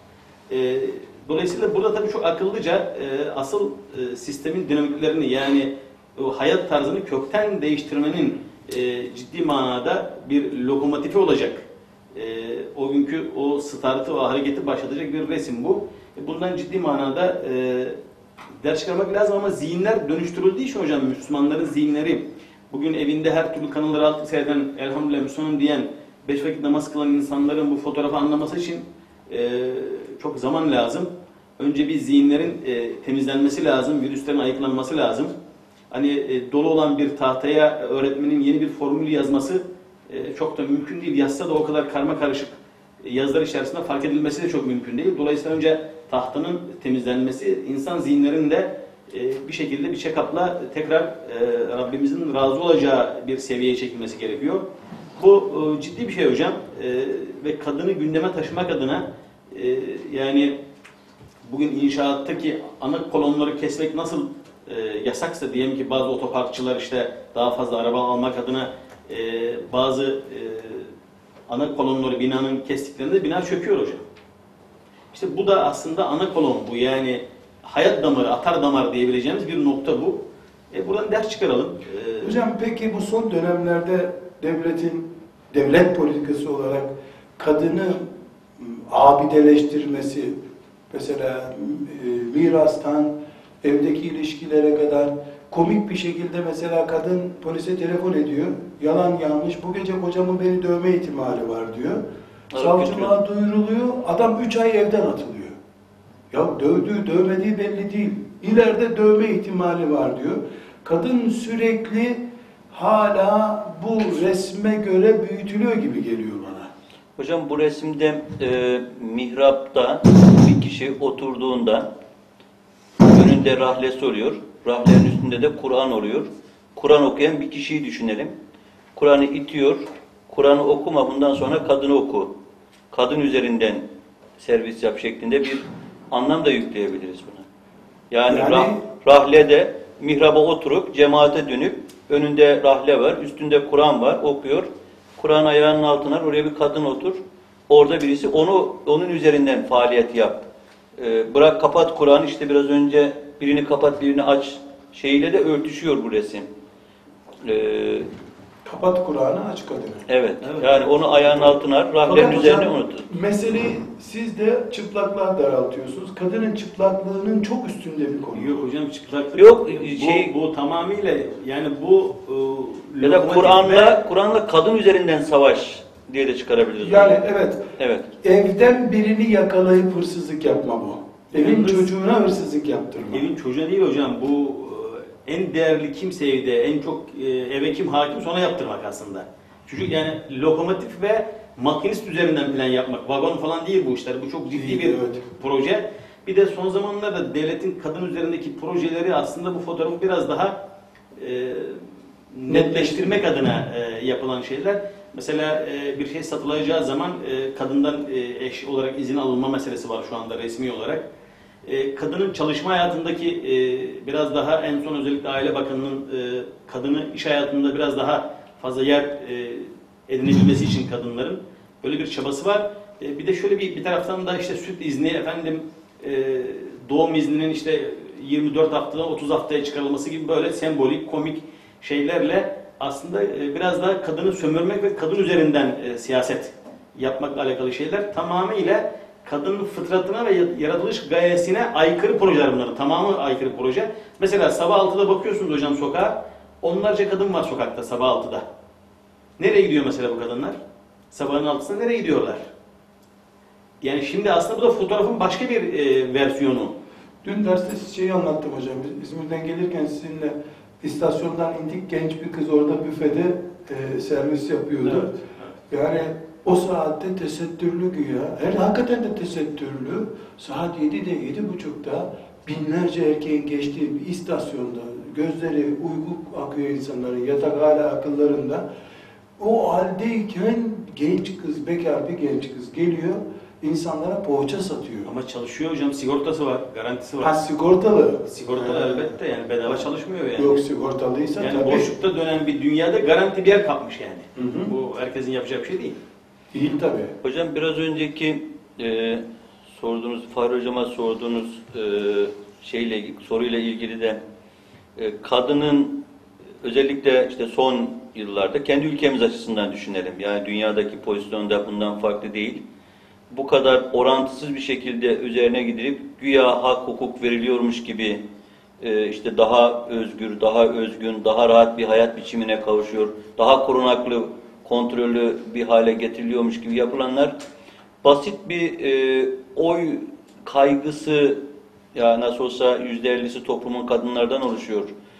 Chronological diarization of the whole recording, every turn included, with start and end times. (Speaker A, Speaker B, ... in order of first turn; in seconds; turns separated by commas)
Speaker A: 0.5-11.6, Speaker A: 12.1-18.0, Speaker A: 18.6-35.3, Speaker A: 35.9-60.6, Speaker A: 61.4-70.9, Speaker A: 71.5-74.0, Speaker A: 75.1-82.4, Speaker B: 82.2-90.4, Speaker B: 90.9-102.0, Speaker C: 102.5-103.1, Speaker B: 102.5-105.6, Speaker B: 106.3-116.7, Speaker C: 117.2-121.9, Speaker C: 123.0-128.3, Speaker C: 128.9-132.3, Speaker C: 132.9-133.8, Speaker C: 134.4-137.4, Speaker C: 138.1-156.5, Speaker B: 138.3-138.8, Speaker C: 157.4-158.1, Speaker B: 158.6-160.1, Speaker C: 160.1-163.1, Speaker A: 160.4-161.4, Speaker B: 162.1-168.7, Speaker A: 168.3-174.0, Speaker C: 169.4-170.3, Speaker C: 173.0-177.2, Speaker B: 176.8-177.7, Speaker C: 177.8-178.1, Speaker B: 178.2-183.3, Speaker A: 181.3-181.9, Speaker A: 183.1-200.6, Speaker B: 194.5-195.2, Speaker A: 201.2-211.1, Speaker B: 202.5-203.2, Speaker A: 211.6-248.4, Speaker A: 249.4-250.6, Speaker A: 251.1-252.5, Speaker A: 253.8-256.7, Speaker B: 257.2-265.2, Speaker A: 264.8-265.5, Speaker B: 265.7-278.6, Speaker B: 279.4-285.1, Speaker A: 285.1-287.4, Speaker B: 287.2-289.2, Speaker A: 288.3-290.6, Speaker B: 290.4-291.9, Speaker A: 291.4-296.0, Speaker B: 294.4-294.7, Speaker B: 296.5-297.1, Speaker C: 297.2-304.2, Speaker C: 304.9-306.0, Speaker C: 306.6-312.6, Speaker C: 313.3-318.2, Speaker C: 318.8-327.3, Speaker C: 328.0-331.4, Speaker C: 331.9-334.9